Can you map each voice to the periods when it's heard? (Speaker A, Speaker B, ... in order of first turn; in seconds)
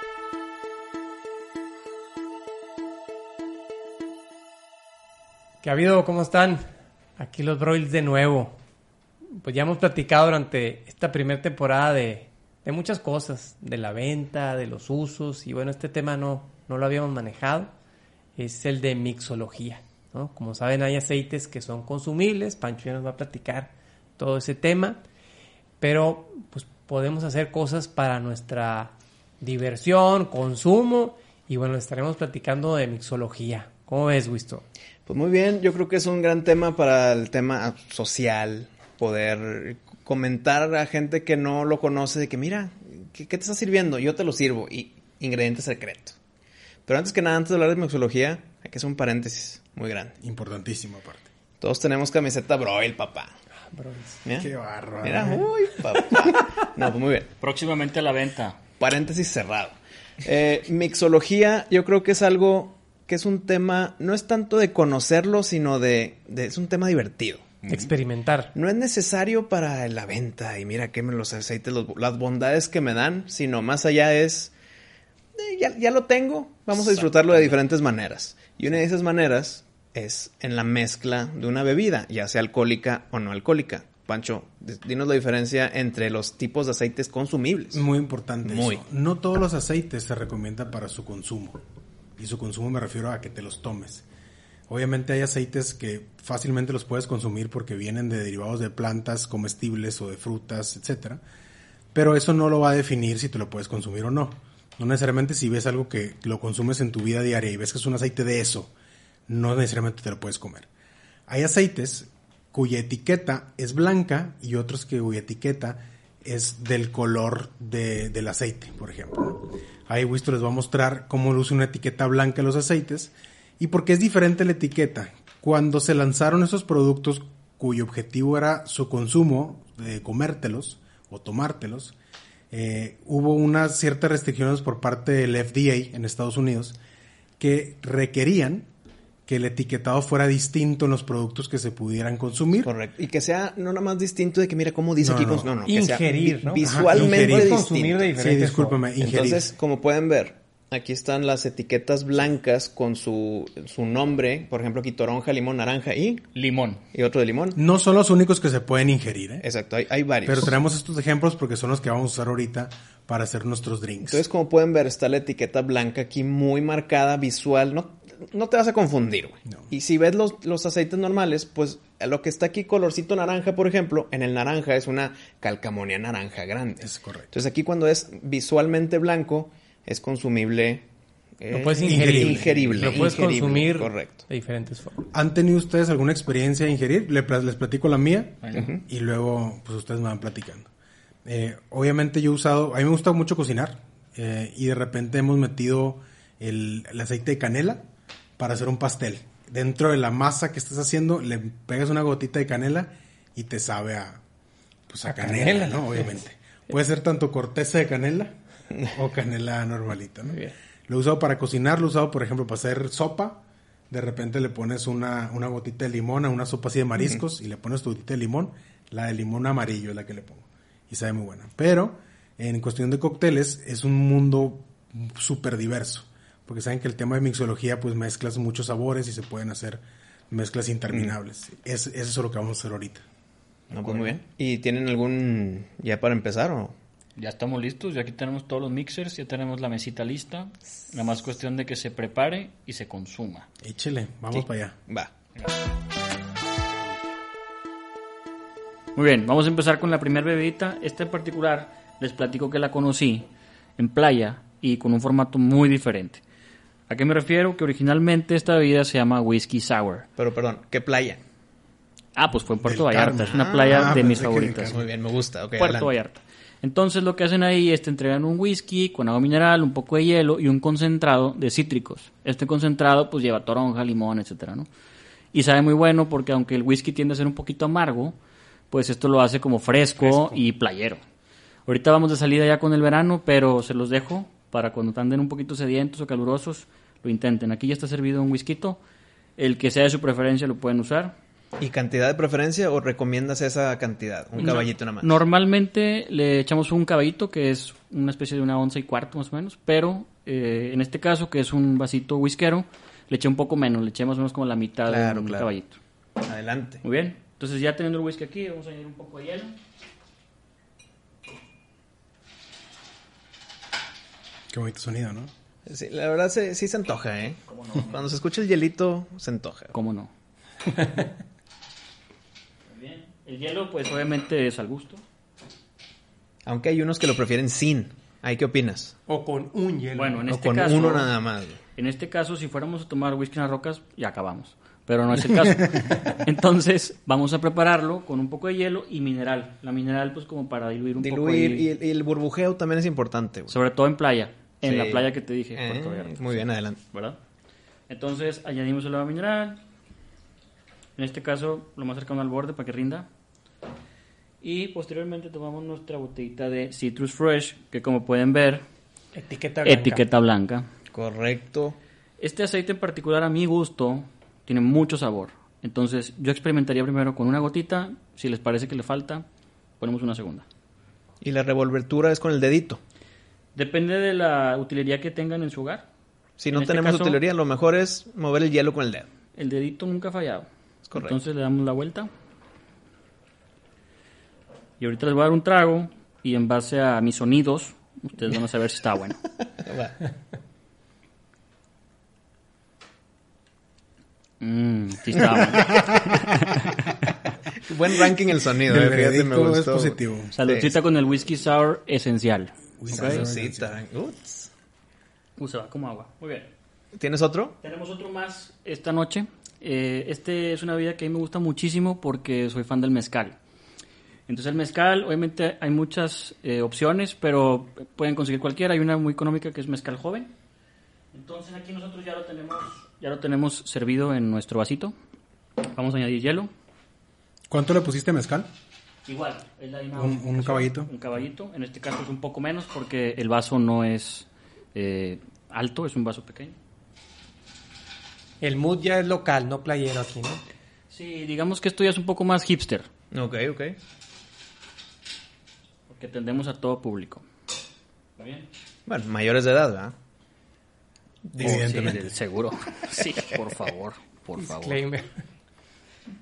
Speaker A: 5.6-6.6, 7.2-8.6, 9.4-17.7, 18.4-25.0, 25.8-34.6, 53.7-54.2, 67.7-68.5, 145.7-148.8, 181.5-185.0, 205.1-206.1, 210.3-210.5, 280.0-280.4, 329.1-330.2, 359.1-360.0, 438.4-440.4, 454.4-455.1
Speaker B: 35.1-46.1, 46.9-50.1, 51.6-53.3, 54.2-54.5, 55.0-57.3, 58.8-67.6, 68.5-74.5, 75.4-87.8, 88.5-88.8, 142.6-148.2, 149.0-156.3, 156.9-157.6, 159.4-160.6, 164.0-180.8, 181.4-184.2, 188.5-188.8, 233.7-236.8, 244.3-245.1, 260.2-261.2, 263.2-264.1, 264.7-265.9, 291.6-295.2, 304.9-305.5, 306.2-306.8, 315.7-319.7, 326.4-328.9, 330.3-331.6, 341.0-343.6, 344.6-346.8, 360.9-361.8, 371.2-372.8, 376.4-379.1, 380.9-381.2, 389.6-390.0, 397.7-400.8, 402.9-404.5, 406.9-407.6, 443.1-443.8, 448.9-449.9, 451.3-451.9
Speaker C: 50.2-51.3, 54.4-55.5, 87.7-91.6, 92.2-94.0, 94.7-101.2, 101.9-108.7, 109.3-110.7, 111.3-131.9, 132.5-136.8, 137.4-138.7, 139.3-142.7, 145.0-145.5, 146.6-147.6, 148.2-149.5, 157.6-159.4, 160.2-164.2, 176.8-177.3, 181.8-182.5, 185.1-190.7, 191.3-197.8, 198.4-204.2, 204.9-208.3, 208.9-233.0, 243.6-244.8, 262.6-264.9, 314.5-315.3, 398.6-400.3, 402.8-403.8, 427.5-428.5, 430.0-430.9, 451.4-452.1
Speaker D: 57.4-58.6, 67.7-67.9, 76.8-77.6, 156.3-156.8, 188.4-188.7, 233.9-234.1, 237.2-243.5, 248.9-256.2, 256.9-260.1, 262.2-264.8, 265.6-274.7, 275.3-278.2, 278.7-281.0, 281.7-288.8, 289.4-291.1, 294.4-305.8, 306.8-309.6, 317.5-318.1, 319.7-320.1, 322.7-325.0, 329.9-331.1, 331.8-341.7, 343.5-347.2, 347.9-349.6, 351.0-353.1, 354.4-358.6, 359.6-360.7, 362.2-369.3, 369.8-370.4, 373.6-375.9, 376.5-377.2, 379.4-382.1, 384.8-389.2, 394.4-396.6, 400.3-403.2, 405.4-406.5, 407.6-413.4, 414.3-420.3, 421.1-424.9, 425.6-426.5, 429.1-436.6, 440.9-442.9, 445.9-447.2, 448.2-448.5, 451.4-454.9